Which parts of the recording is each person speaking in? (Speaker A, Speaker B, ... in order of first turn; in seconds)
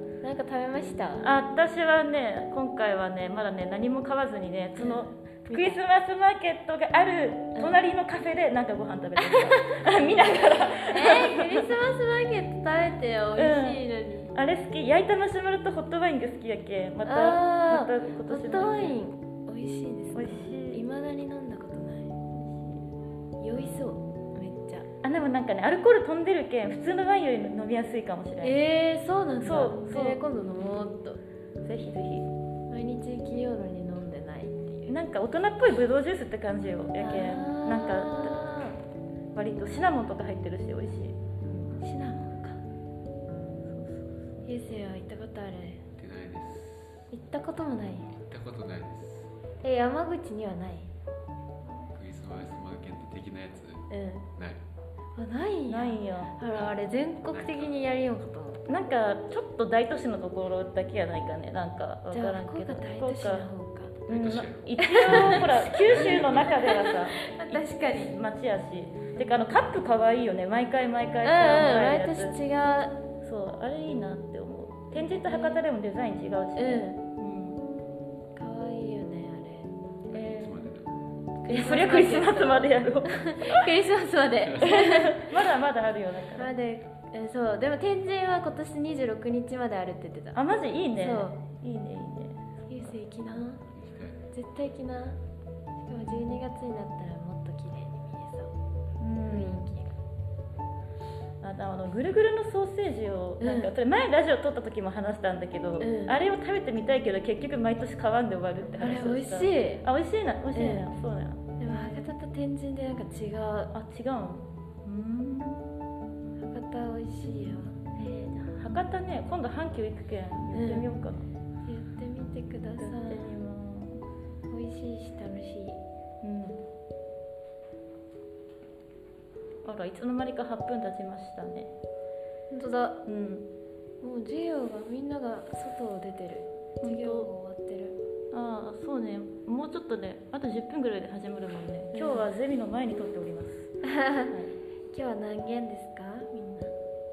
Speaker A: 0.2-1.3, 4.8-5.8, 7.5-7.9, 9.2-14.3, 17.1-22.2, 23.4-24.9, 28.4-31.2, 32.7-35.0, 37.0-38.8, 41.8-42.6, 44.5-45.8, 47.1-48.1, 49.6-50.9, 53.9-54.3, 55.2-58.6, 62.1-63.9, 64.8-68.2, 71.2-73.0, 75.0-75.6, 76.6-77.0, 78.3-79.7, 81.4-85.4, 86.3-90.4, 90.9-91.4, 92.7-93.7, 94.3-95.2, 95.8-98.5, 99.2-100.0, 103.4-103.7, 105.8-106.2, 108.8-109.9, 110.5-110.9, 111.6-113.7, 116.4-117.8, 120.5-120.9, 121.7-123.4, 124.5-125.8, 132.5-133.0, 134.0-138.0, 141.9-142.3, 143.9-144.3, 144.9-146.7
Speaker B: 1.2-11.7, 13.4-19.0, 20.1-20.8, 22.3-22.9, 25.0-28.6, 29.4-30.2, 31.6-32.3, 34.9-38.4, 39.4-41.7, 43.7-44.5, 55.7-56.4, 58.7-63.5, 64.1-72.3, 73.2-77.6, 80.1-80.7, 81.5-83.7, 84.6-86.5, 90.3-93.0, 96.0-96.3, 99.0-99.7, 101.4-112.1, 113.7-115.7, 118.0-121.2, 122.8-124.0, 126.2-126.6, 129.7-131.7, 133.1-133.5, 136.8-137.3, 138.3-144.5
Speaker C: 46.0-47.1, 48.1-49.4, 51.9-54.6, 56.5-57.8, 64.1-66.6, 80.1-80.9, 84.4-85.1, 93.7-94.2